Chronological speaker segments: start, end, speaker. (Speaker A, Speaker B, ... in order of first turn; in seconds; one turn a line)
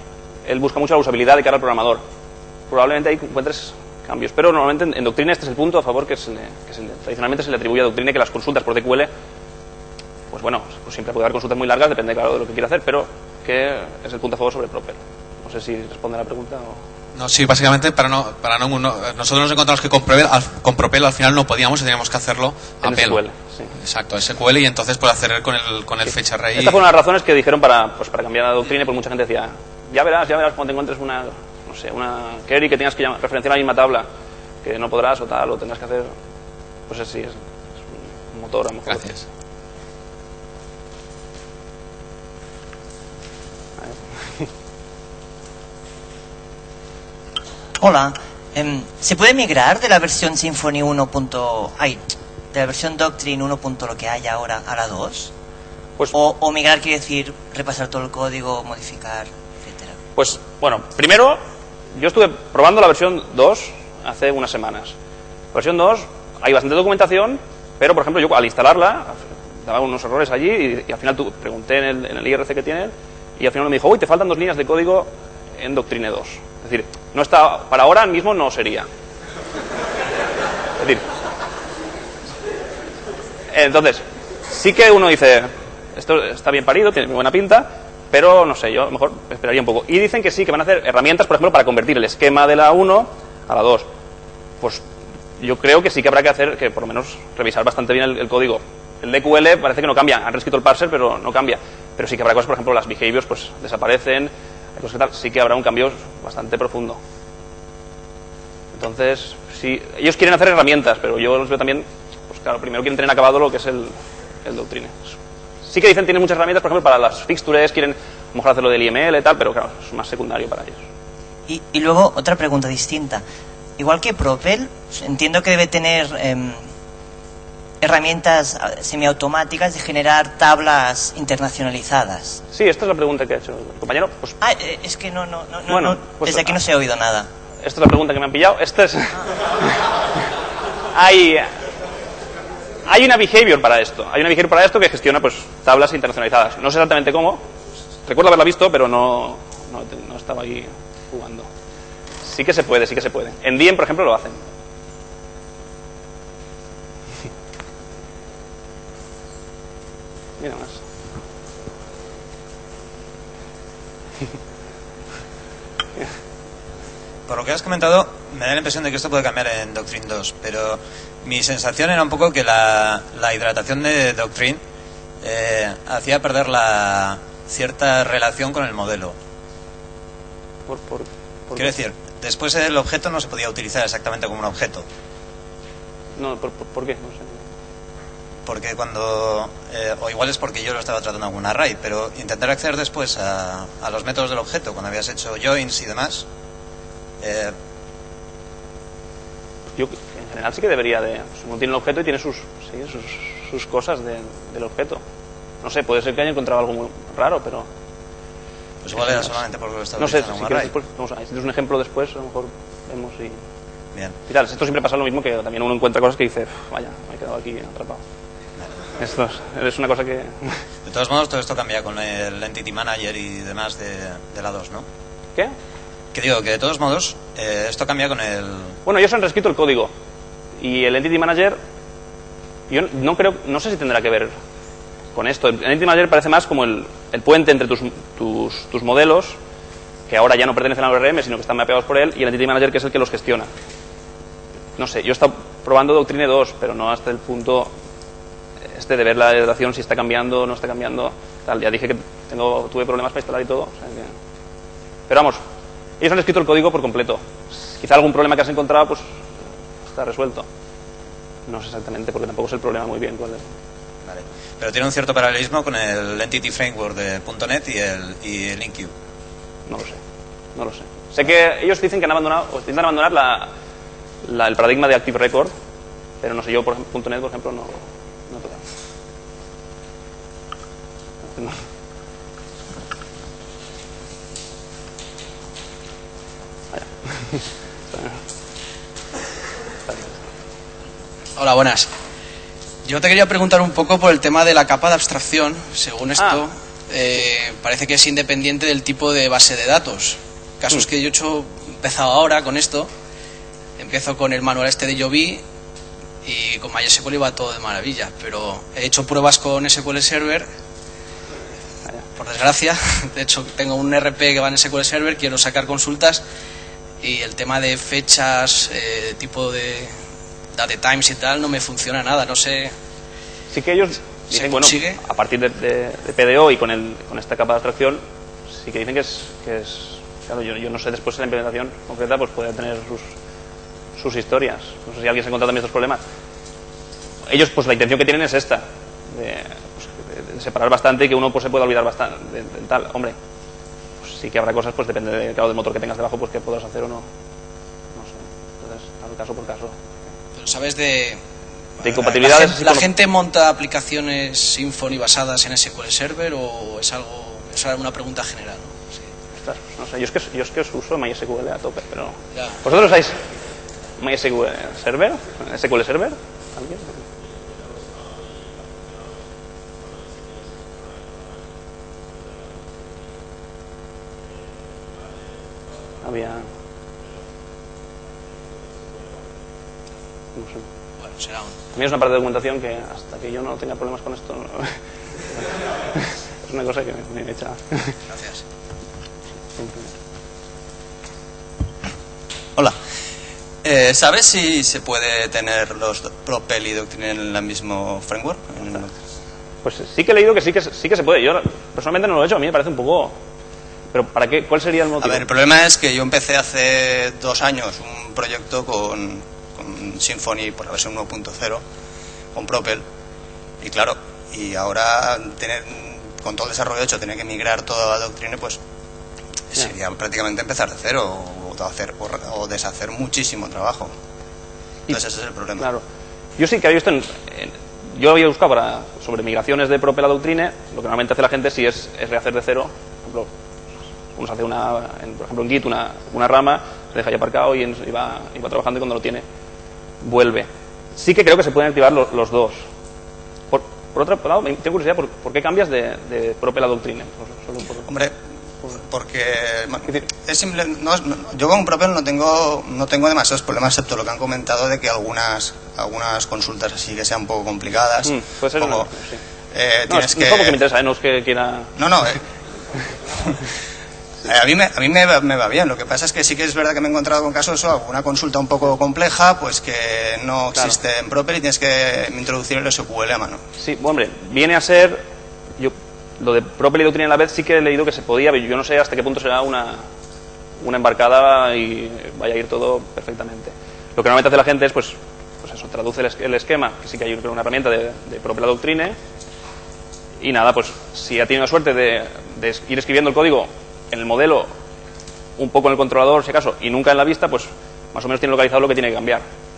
Speaker A: 0.5-2.0
Speaker A: 2.7-9.1
Speaker A: 10.3-16.8
Speaker B: 17.1-23.2
Speaker A: 22.8-23.7
Speaker B: 23.8-26.8
Speaker A: 26.1-34.1
Speaker A: 34.6-36.1
Speaker A: 36.9-37.4
Speaker A: 38.3-39.2
Speaker A: 43.8-44.5
Speaker C: 47.8-52.0
Speaker C: 52.5-55.3
Speaker C: 56.1-60.0
Speaker A: 60.2-61.4
Speaker A: 62.0-65.0
Speaker A: 65.5-78.9
Speaker A: 80.8-81.0
Speaker A: 83.5-93.9
Speaker A: 95.4-107.0
Speaker A: 108.7-113.9
Speaker A: 114.5-115.0
Speaker A: 115.7-120.8
Speaker C: 121.5-123.2
Speaker C: 123.8-126.6
Speaker C: 127.8-132.4
Speaker A: 132.5-134.4
Speaker C: 134.4-137.3
Speaker A: 135.7-136.6
Speaker A: 137.6-139.8
Speaker A: 140.9-141.5
Speaker A: 142.9-147.4
Speaker A: 148.1-151.5
Speaker A: 152.2-154.4
Speaker A: 160.4-160.8
Speaker D: 167.3-174.6
Speaker D: 175.2-179.1
Speaker A: 180.7-181.7
Speaker D: 181.6-184.9
Speaker A: 186.2-187.4
Speaker D: 188.4-196.3
Speaker D: 197.2-197.5
Speaker A: 199.8-205.0
Speaker A: 205.6-207.7
Speaker D: 208.8-210.7
Speaker A: 209.0-209.4
Speaker A: 210.0-213.4
Speaker A: 214.3-218.0
Speaker A: 219.0-220.6
Speaker D: 220.8-224.8
Speaker D: 226.1-228.8
Speaker A: 228.9-229.9
Speaker A: 230.6-231.6
Speaker A: 232.7-234.3
Speaker A: 235.1-239.4
Speaker A: 240.1-243.5
Speaker A: 244.8-247.7
Speaker A: 248.7-254.1
Speaker A: 255.1-255.4
Speaker A: 256.0-259.1
Speaker A: 259.9-260.5
Speaker A: 261.5-263.4
Speaker D: 264.1-268.9
Speaker A: 269.7-270.0
Speaker A: 270.6-273.5
Speaker A: 274.2-275.5
Speaker A: 276.2-278.6
Speaker A: 281.3-281.6
Speaker A: 286.7-287.4
Speaker A: 287.9-288.2
Speaker A: 289.9-290.1
Speaker E: 291.4-291.9
Speaker E: 292.8-302.9
Speaker A: 296.2-296.5
Speaker E: 303.8-305.4
Speaker E: 306.2-310.4
Speaker E: 312.2-316.2
Speaker E: 317.0-319.9
Speaker E: 320.5-322.7
Speaker A: 323.5-328.0
Speaker E: 324.4-325.0
Speaker A: 328.5-333.1
Speaker A: 334.0-336.0
Speaker A: 337.3-343.1
Speaker A: 344.0-347.1
Speaker A: 347.9-349.8
Speaker E: 350.4-351.2
Speaker E: 351.8-359.1
Speaker A: 351.8-352.9
Speaker A: 359.4-363.2
Speaker A: 364.0-367.0
Speaker A: 376.0-376.4
Speaker A: 380.4-380.6
Speaker E: 381.0-381.5
Speaker A: 381.7-384.8
Speaker A: 385.9-388.0
Speaker A: 389.6-389.9
Speaker F: 393.6-398.9
Speaker A: 399.6-403.1
Speaker A: 403.9-405.2
Speaker F: 405.0-411.6
Speaker F: 412.4-412.8
Speaker F: 413.6-418.6
Speaker F: 419.5-423.9
Speaker F: 424.9-425.7
Speaker A: 426.4-433.3
Speaker A: 434.1-439.2
Speaker A: 440.0-442.7
Speaker A: 443.5-447.9
Speaker F: 447.9-448.2
Speaker F: 448.7-458.9
Speaker A: 458.0-459.2
Speaker F: 459.5-460.6
Speaker A: 459.9-461.8
Speaker F: 461.8-462.2
Speaker F: 464.2-473.4
Speaker A: 473.6-475.0
Speaker A: 475.6-479.9
Speaker A: 480.6-488.9
Speaker A: 490.2-494.5
Speaker A: 495.4-499.2